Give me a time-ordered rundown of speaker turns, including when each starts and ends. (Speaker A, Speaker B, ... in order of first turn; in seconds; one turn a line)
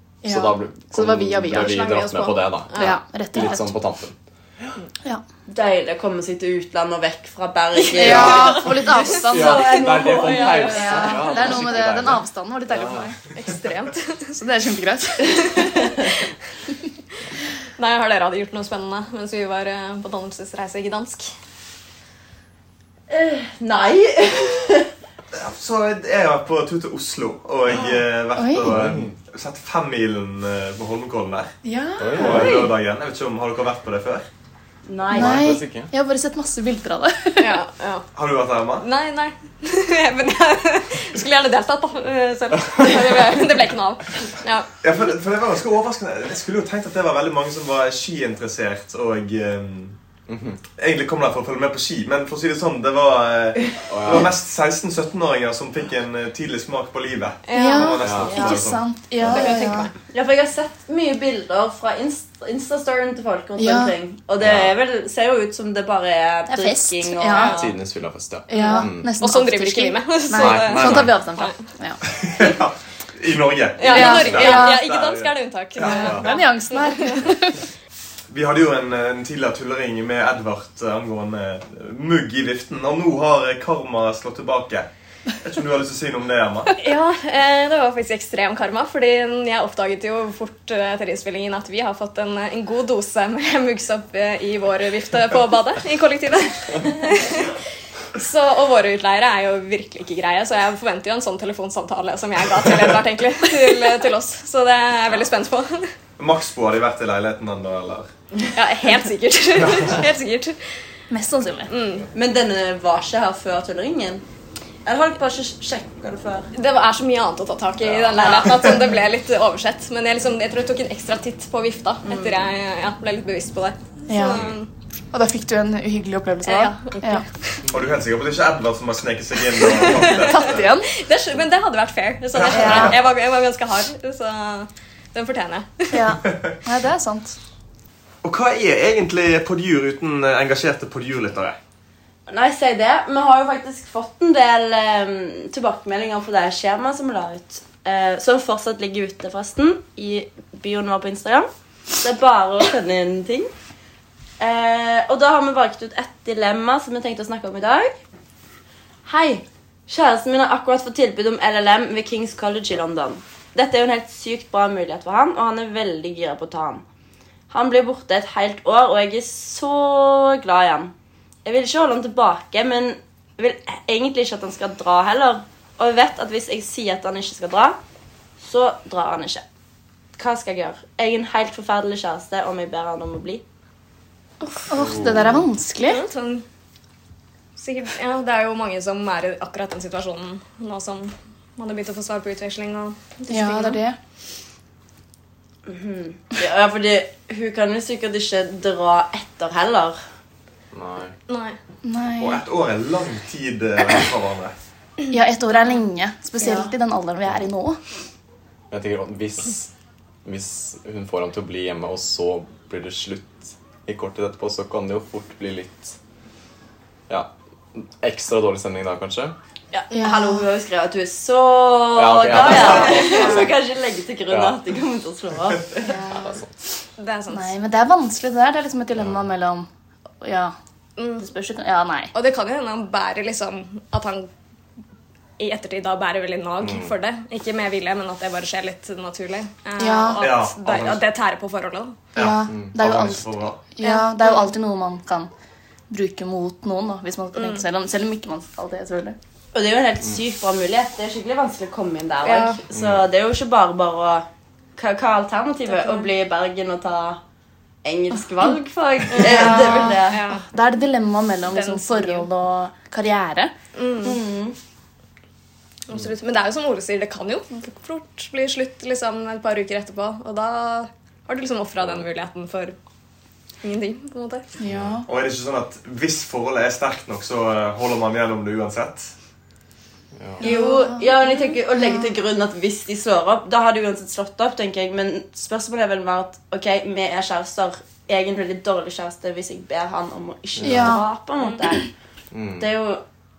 Speaker A: 0.2-4.8
Speaker B: 0.2-2.0
Speaker C: 1.5-3.0
Speaker B: 2.7-3.7
Speaker D: 5.5-8.7
Speaker B: 7.9-13.2
Speaker A: 8.0-8.7
Speaker A: 9.2-13.2
Speaker C: 9.4-11.6
Speaker D: 9.6-10.8
Speaker C: 13.3-14.3
Speaker B: 14.3-16.0
Speaker C: 15.3-15.9
Speaker C: 17.8-21.3
Speaker D: 23.1-24.9
Speaker E: 25.3-31.5
Speaker B: 28.4-28.8
Speaker A: 28.6-29.1
Speaker B: 31.6-32.7
Speaker A: 32.0-32.7
Speaker E: 32.1-34.3
Speaker D: 34.9-35.4
Speaker A: 35.1-35.9
Speaker B: 35.1-37.6
Speaker C: 37.4-38.0
Speaker E: 38.1-38.9
Speaker C: 38.8-44.7
Speaker E: 44.8-50.0
Speaker A: 50.3-50.6
Speaker E: 50.7-58.8
Speaker A: 53.9-54.3
Speaker C: 57.5-58.5
Speaker B: 57.5-59.9
Speaker A: 58.0-58.5
Speaker C: 59.2-59.9
Speaker A: 59.2-59.5
Speaker D: 60.1-67.7
Speaker B: 63.6-63.9
Speaker A: 64.4-64.7
Speaker B: 66.5-67.7
Speaker C: 67.3-67.6
Speaker A: 67.4-69.1
Speaker B: 68.5-72.0
Speaker C: 68.5-71.6
Speaker A: 70.3-71.3
Speaker E: 72.1-76.3
Speaker C: 73.8-77.3
Speaker B: 73.9-74.8
Speaker A: 75.9-76.3
Speaker B: 76.0-77.6
Speaker E: 78.3-84.9
Speaker E: 85.4-86.7
Speaker C: 86.8-97.6
Speaker C: 98.1-105.9
Speaker E: 106.2-108.1
Speaker C: 108.5-110.6
Speaker B: 111.1-111.7
Speaker C: 111.7-112.1
Speaker D: 112.1-114.2
Speaker D: 114.8-116.5
Speaker C: 116.5-124.7
Speaker A: 117.8-118.3
Speaker D: 118.2-118.7
Speaker D: 122.0-122.4
Speaker B: 124.1-124.4
Speaker B: 125.1-127.2
Speaker C: 126.4-127.6
Speaker E: 127.7-130.7
Speaker C: 129.7-136.1
Speaker B: 130.2-130.9
Speaker E: 132.3-133.0
Speaker B: 132.5-132.9
Speaker B: 135.9-137.4
Speaker E: 138.2-141.6
Speaker D: 142.3-151.5
Speaker D: 152.0-153.5
Speaker D: 154.4-157.9
Speaker D: 159.1-166.8
Speaker D: 167.5-170.9
Speaker D: 171.4-177.8
Speaker D: 178.4-179.4
Speaker D: 180.2-183.4
Speaker B: 184.4-186.0
Speaker A: 184.8-185.4
Speaker C: 185.8-186.4
Speaker C: 187.6-193.8
Speaker B: 193.3-194.0
Speaker D: 195.7-200.0
Speaker A: 200.7-201.1
Speaker C: 201.3-201.6
Speaker B: 201.8-202.4
Speaker E: 202.2-204.5
Speaker B: 205.1-207.8
Speaker D: 206.4-206.7
Speaker A: 208.7-209.7
Speaker A: 210.2-216.0
Speaker A: 217.1-219.3
Speaker D: 219.9-226.0
Speaker B: 219.9-220.5
Speaker A: 221.9-223.6
Speaker A: 224.3-224.6
Speaker B: 225.8-226.4
Speaker A: 226.1-226.5
Speaker C: 227.0-227.5
Speaker B: 227.3-229.7
Speaker A: 228.9-229.2
Speaker B: 230.2-230.5
Speaker C: 231.0-231.3
Speaker B: 231.2-232.1
Speaker C: 232.1-234.3
Speaker C: 235.4-242.0
Speaker A: 236.6-236.9
Speaker B: 239.8-240.2
Speaker E: 240.2-241.0
Speaker E: 242.1-243.6
Speaker B: 242.1-245.3
Speaker C: 243.8-244.5
Speaker B: 245.9-249.2
Speaker C: 247.3-247.6
Speaker D: 249.5-254.2
Speaker C: 252.2-252.6
Speaker A: 252.7-253.1
Speaker D: 254.8-257.2
Speaker C: 255.7-256.1
Speaker D: 257.8-260.2
Speaker C: 259.1-260.4
Speaker B: 259.2-263.5
Speaker C: 261.5-262.3
Speaker C: 263.8-264.2
Speaker D: 264.0-264.6
Speaker C: 265.9-272.8
Speaker A: 271.8-272.1
Speaker C: 273.6-274.5
Speaker B: 274.6-275.1
Speaker A: 274.6-275.0
Speaker E: 275.1-279.1
Speaker A: 280.1-280.4
Speaker B: 280.4-282.1
Speaker D: 280.4-291.9
Speaker A: 290.6-291.0
Speaker B: 290.6-291.1
Speaker A: 292.3-292.7
Speaker D: 292.6-293.0